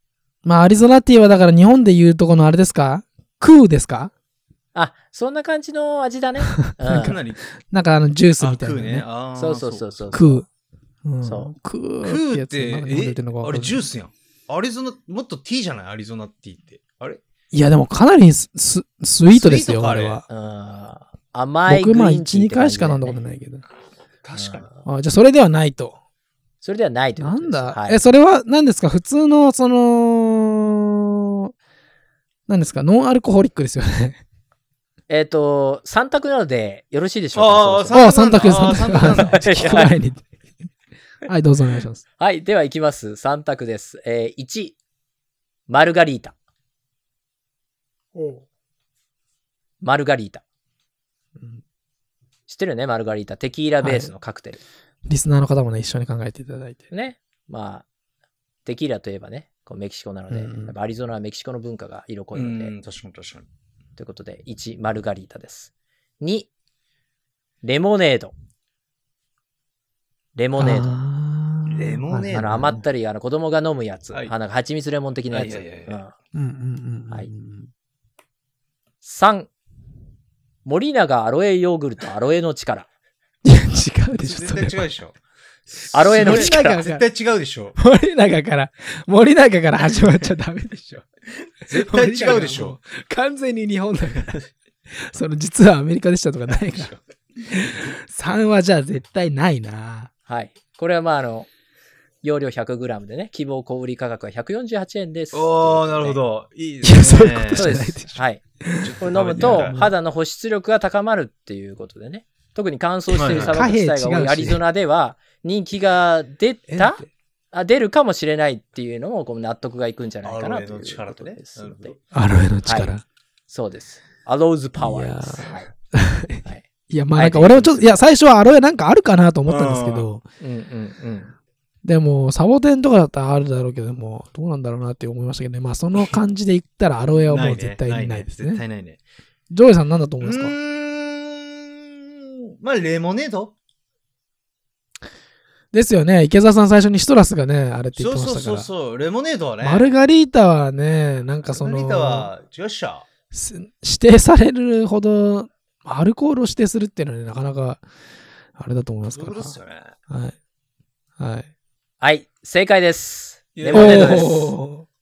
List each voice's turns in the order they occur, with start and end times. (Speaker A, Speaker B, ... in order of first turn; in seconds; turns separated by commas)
Speaker A: 0.5-4.1, Speaker B: 4.7-7.2, Speaker A: 6.7-9.1, Speaker C: 6.9-7.4, Speaker C: 8.4-10.1, Speaker B: 9.3-10.4, Speaker A: 10.1-10.5, Speaker A: 11.0-13.8, Speaker B: 11.2-11.5, Speaker C: 12.0-17.2, Speaker A: 17.5-20.2, Speaker C: 19.3-20.2, Speaker B: 20.3-23.2, Speaker A: 21.7-23.6, Speaker C: 24.2-24.7, Speaker B: 24.4-24.9, Speaker A: 24.9-26.0, Speaker B: 26.6-28.0, Speaker A: 27.2-31.5, Speaker A: 32.5-34.2, Speaker B: 35.1-38.1, Speaker C: 37.4-39.9, Speaker A: 37.9-40.3, Speaker B: 39.2-39.9, Speaker A: 41.2-42.0, Speaker B: 42.2-44.8, Speaker B: 45.7-46.4, Speaker A: 48.1-48.4, Speaker B: 49.8-50.4, Speaker A: 51.4-51.6, Speaker B: 52.5-54.6, Speaker A: 53.8-54.1, Speaker A: 55.1-56.9, Speaker B: 56.9-57.9, Speaker B: 58.6-62.7, Speaker A: 60.3-60.7, Speaker C: 62.3-63.5, Speaker B: 64.0-66.5, Speaker B: 67.6-68.3, Speaker B: 70.3-70.9, Speaker A: 70.6-72.7, Speaker C: 71.7-72.7, Speaker B: 72.3-76.2, Speaker C: 75.3-76.0, Speaker A: 76.3-77.7, Speaker B: 79.0-79.5, Speaker B: 80.7-82.9, Speaker A: 83.4-84.8, Speaker C: 84.1-85.2, Speaker C: 85.8-87.8, Speaker B: 85.9-86.8, Speaker A: 86.1-87.0, Speaker A: 87.8-91.1, Speaker C: 91.7-92.8, Speaker A: 91.7-94.4, Speaker A: 94.9-96.9, Speaker C: 96.5-97.0, Speaker A: 97.5-100.1, Speaker B: 100.3-101.5, Speaker B: 102.2-106.2, Speaker C: 105.3-108.2, Speaker A: 106.8-109.9, Speaker B: 107.6-108.4, Speaker C: 108.8-109.8, Speaker B: 109.0-122.0, Speaker A: 113.1-114.6, Speaker C: 113.2-113.6, Speaker A: 116.7-117.1, Speaker C: 120.2-122.0, Speaker A: 122.1-123.0, Speaker B: 122.7-122.9, Speaker B: 123.5-125.7, Speaker A: 124.8-130.2, Speaker B: 126.4-127.9, Speaker C: 129.5-130.1, Speaker B: 130.4-131.3, Speaker A: 131.8-138.6, Speaker C: 137.1-139.0, Speaker A: 139.5-140.6, Speaker C: 140.2-143.5, Speaker A: 145.7-148.7, Speaker C: 148.0-149.9, Speaker A: 149.6-152.3, Speaker C: 151.5-153.1, Speaker A: 153.3-157.8, Speaker A: 158.6-159.6, Speaker C: 159.1-159.9, Speaker A: 160.1-160.4, Speaker A: 161.2-161.5, Speaker B: 162.0-164.6, Speaker C: 163.6-164.3, Speaker A: 163.7-164.8